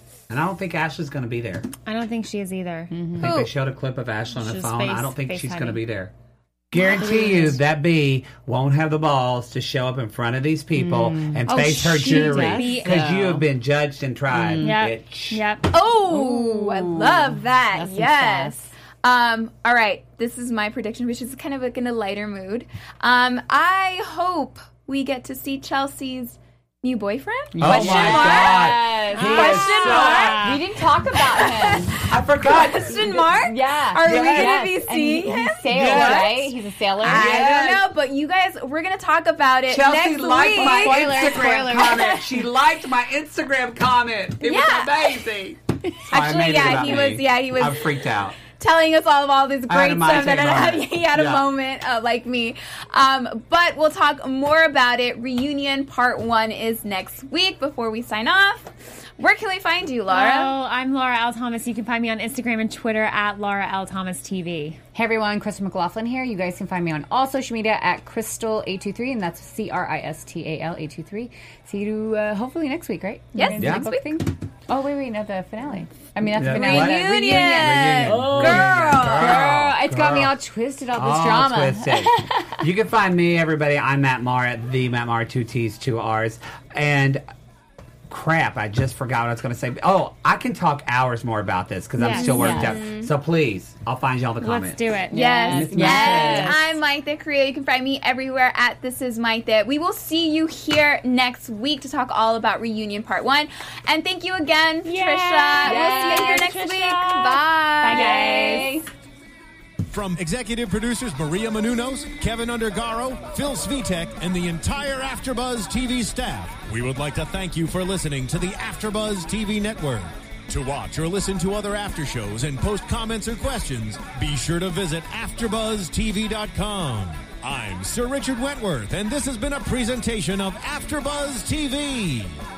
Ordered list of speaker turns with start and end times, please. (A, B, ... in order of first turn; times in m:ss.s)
0:00.3-0:01.7 A
0:01.9-0:02.9 B
0:02.9-0:03.3 C
0:03.1-0:06.1 A
0:03.2-0:03.5 D
0:04.4-0:05.8 B
0:06.7-0:15.4 A
0:06.9-0:07.5 C
0:07.1-0:07.5 B
0:10.7-0:13.4 C
0:11.5-0:13.3 B
0:14.3-0:14.8 C
0:14.6-0:15.7 B
0:15.7-0:30.5 D
0:16.1-0:18.8 C
0:27.5-0:32.0 C
0:27.6-0:30.4 A
0:29.1-0:30.6 B
0:31.1-0:42.0 D
0:32.1-0:33.3 A
0:33.1-0:37.6 C
0:34.0-0:34.7 A
0:35.7-0:36.3 A
0:37.0-0:37.9 A
0:39.7-0:48.4 A
0:40.5-0:42.3 C
0:44.4-0:45.1 D
0:46.1-1:00.6 D
0:49.7-0:51.4 A
1:00.1-1:04.8 B
1:05.0-1:22.6 C
1:13.4-1:14.2 D
1:13.6-1:13.9 A
1:16.3-1:20.4 A
1:16.4-1:19.5 D
1:21.0-1:27.2 A
1:28.1-1:35.0 A
1:32.0-1:32.7 B
1:32.1-1:33.1 D
1:32.3-1:32.8 C
1:34.4-1:36.4 B
1:35.1-1:48.7 D
1:35.1-1:36.7 C
1:35.5-1:36.6 A
1:44.8-1:48.7 B
1:45.6-1:46.5 C
1:47.8-1:48.9 C
1:49.9-2:12.4 E